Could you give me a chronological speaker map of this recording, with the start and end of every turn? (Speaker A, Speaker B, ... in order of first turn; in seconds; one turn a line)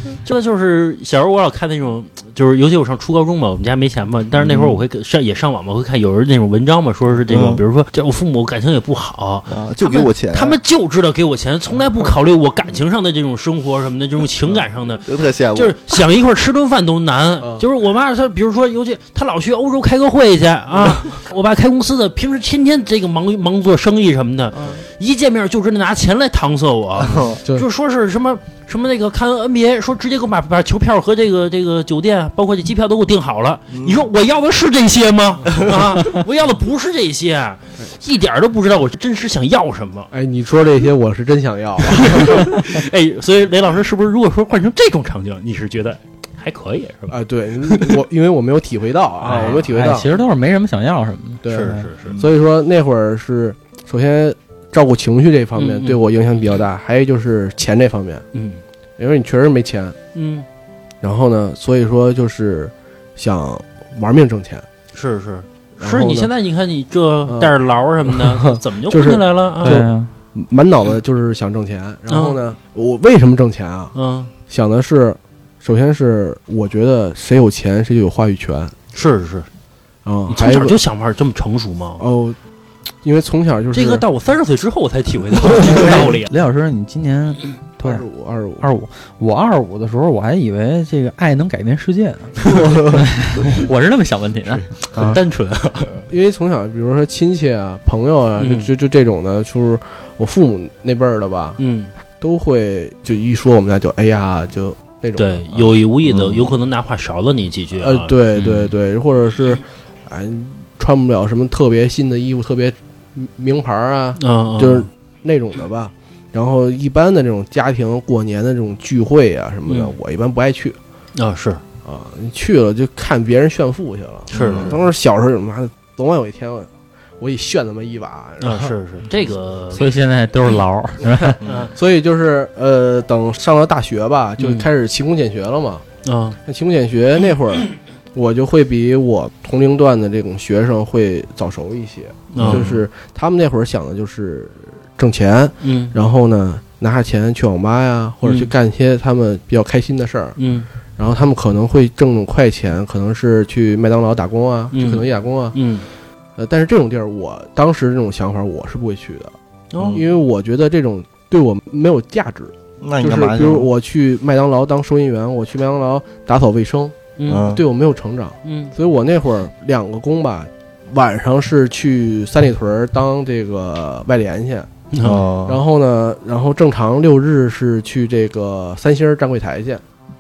Speaker A: 0.2-40.1
Speaker B: 4.4-4.8
Speaker B: 7.3-7.6
Speaker B: 9.5-10.6
Speaker B: 15.1-15.9
Speaker B: 27.0-27.4
Speaker C: 40.1-42.5
Speaker A: 41.9-48.0
Speaker C: 47.1-50.1
Speaker A: 49.2-49.7
Speaker D: 49.3-51.9
Speaker C: 51.4-58.2
Speaker A: 51.5-52.2
Speaker A: 55.6-56.0
Speaker A: 58.3-58.6
Speaker C: 59.0-60.0
Speaker A: 60.1-60.5
Speaker C: 61.0-64.7
Speaker A: 64.9-69.9
Speaker C: 65.8-66.3
Speaker C: 67.3-73.9
Speaker D: 69.6-70.1
Speaker A: 72.1-72.4
Speaker A: 74.0-74.3
Speaker C: 74.5-78.8
Speaker A: 78.9-79.5
Speaker C: 80.0-80.8
Speaker A: 80.3-82.0
Speaker C: 82.0-82.4
Speaker C: 83.0-84.0
Speaker A: 83.7-86.3
Speaker D: 85.6-88.0
Speaker C: 87.8-88.7
Speaker D: 88.6-95.2
Speaker A: 94.9-96.0
Speaker C: 96.1-101.6
Speaker A: 98.4-98.7
Speaker A: 101.6-101.9
Speaker C: 102.2-105.7
Speaker A: 105.2-108.7
Speaker B: 106.2-106.4
Speaker C: 107.8-120.8
Speaker A: 114.2-114.9
Speaker A: 119.7-119.9
Speaker A: 121.2-121.6
Speaker C: 121.8-128.7
Speaker B: 124.3-124.8
Speaker A: 124.3-124.8
Speaker A: 128.4-129.9
Speaker D: 129.7-131.4
Speaker C: 131.1-135.8
Speaker A: 131.4-131.7
Speaker A: 134.4-134.7
Speaker A: 136.0-136.4
Speaker C: 136.4-150.4
Speaker A: 142.3-142.8
Speaker A: 145.6-145.9
Speaker A: 148.2-148.5
Speaker A: 150.4-150.7
Speaker C: 151.0-155.6
Speaker A: 154.7-155.9
Speaker C: 156.4-159.3
Speaker A: 159.7-160.0
Speaker B: 159.8-160.0
Speaker C: 159.9-174.7
Speaker B: 162.8-163.7
Speaker A: 167.2-167.5
Speaker B: 167.3-167.6
Speaker A: 168.4-168.7
Speaker A: 174.9-175.2
Speaker B: 175.0-175.6
Speaker C: 175.5-179.8